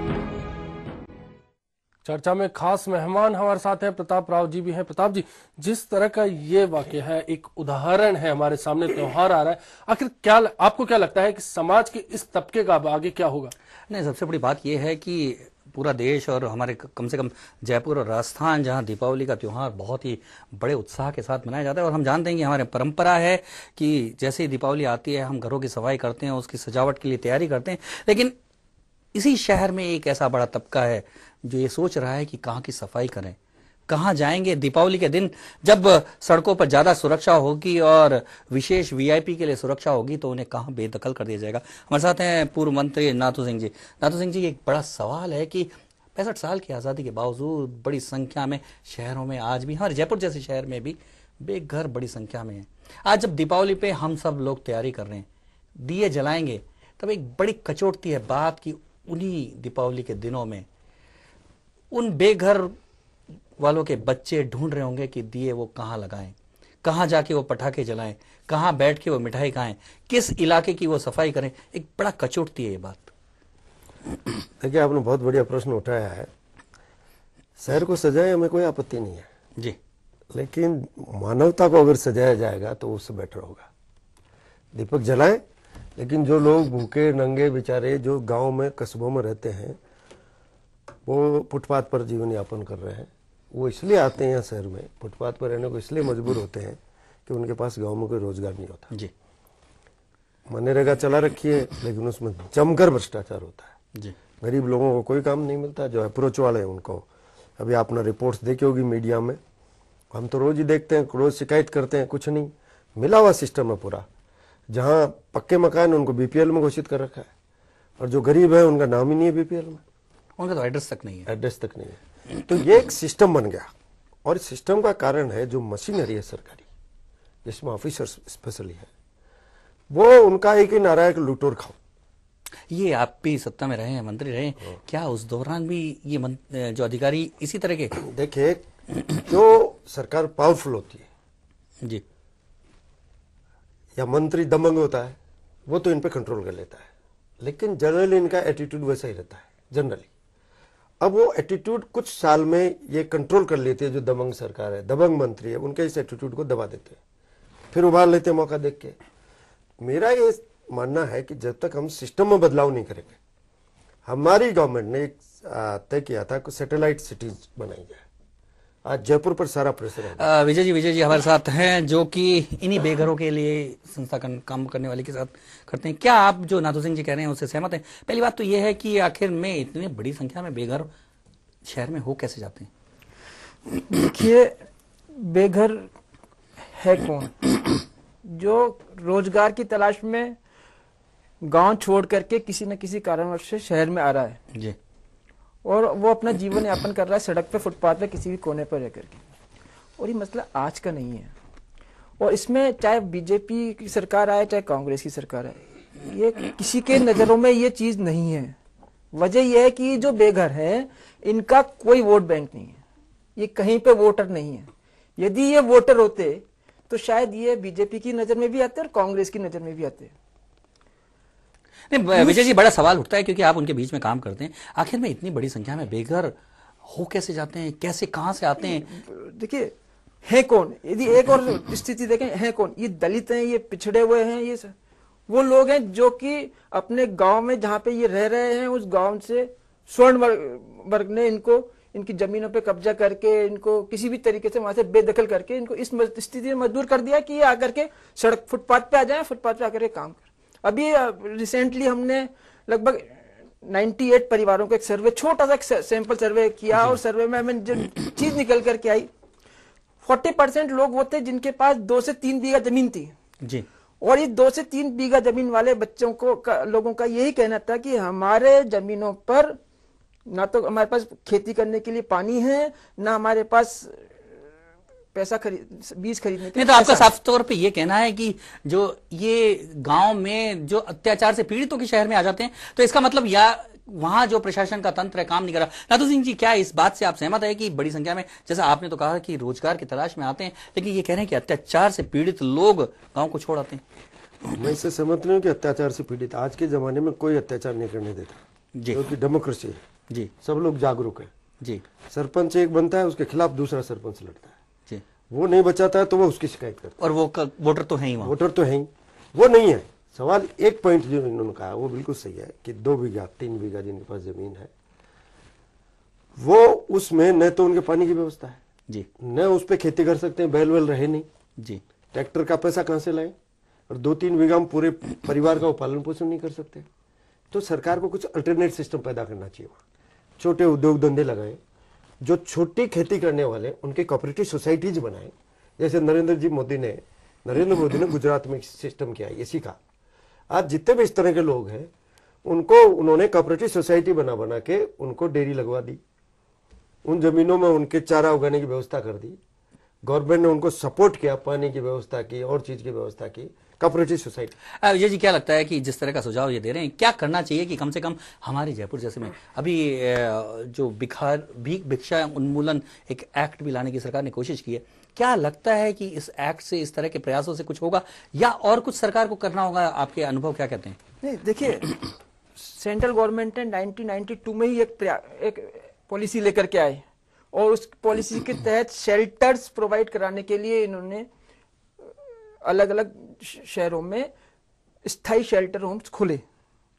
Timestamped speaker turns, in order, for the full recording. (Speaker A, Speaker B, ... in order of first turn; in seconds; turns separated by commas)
Speaker A: 2.0-13.5, Speaker B: 13.9-28.3, Speaker B: 29.1-33.4, Speaker B: 33.9-55.2, Speaker B: 55.8-60.6, Speaker B: 61.9-62.7, Speaker B: 63.6-73.1, Speaker C: 74.6-76.3, Speaker C: 77.6-79.3, Speaker C: 80.3-83.7, Speaker C: 84.7-85.4, Speaker C: 86.0-89.8, Speaker C: 91.0-98.9, Speaker C: 100.5-103.7, Speaker C: 104.4-107.1, Speaker C: 107.6-109.4, Speaker C: 110.1-114.0, Speaker C: 114.7-117.3, Speaker C: 118.0-119.8, Speaker B: 120.4-121.3, Speaker C: 121.3-123.7, Speaker C: 124.2-126.7, Speaker C: 127.4-128.9, Speaker C: 129.9-131.8, Speaker B: 132.7-138.0, Speaker C: 138.0-141.1, Speaker C: 144.0-146.9, Speaker C: 147.4-150.1, Speaker C: 151.0-157.0, Speaker C: 157.7-158.9, Speaker C: 159.8-163.2, Speaker C: 164.1-168.0, Speaker C: 168.8-170.3, Speaker B: 170.2-180.9, Speaker B: 181.6-182.7, Speaker D: 183.9-184.6, Speaker D: 185.2-185.9, Speaker D: 186.7-187.5, Speaker D: 188.2-190.3, Speaker D: 191.4-194.4, Speaker D: 195.6-199.2, Speaker D: 200.0-201.3, Speaker D: 202.2-208.6, Speaker D: 209.1-212.8, Speaker D: 213.3-220.1, Speaker B: 221.9-226.3, Speaker D: 222.2-222.4, Speaker B: 226.8-228.9, Speaker D: 228.7-229.7, Speaker D: 230.2-234.7, Speaker D: 235.3-259.1, Speaker B: 256.7-257.0, Speaker D: 260.0-263.1, Speaker D: 264.0-269.6, Speaker D: 270.3-274.1, Speaker D: 275.1-277.1, Speaker B: 276.5-293.8, Speaker C: 294.5-299.8, Speaker B: 298.8-299.1, Speaker C: 300.4-301.3, Speaker C: 302.1-304.5, Speaker C: 305.3-307.0, Speaker B: 307.0-308.3, Speaker C: 308.2-314.7, Speaker C: 316.4-318.6, Speaker C: 319.2-321.3, Speaker C: 322.1-323.3, Speaker C: 323.9-326.9, Speaker C: 327.5-329.8, Speaker C: 330.4-331.6, Speaker C: 332.2-339.8, Speaker C: 340.5-341.9, Speaker C: 342.4-346.0, Speaker C: 347.0-349.4, Speaker C: 350.1-354.5, Speaker B: 354.8-371.0, Speaker D: 371.2-371.9, Speaker D: 372.6-381.3, Speaker D: 382.6-384.3, Speaker D: 385.0-386.4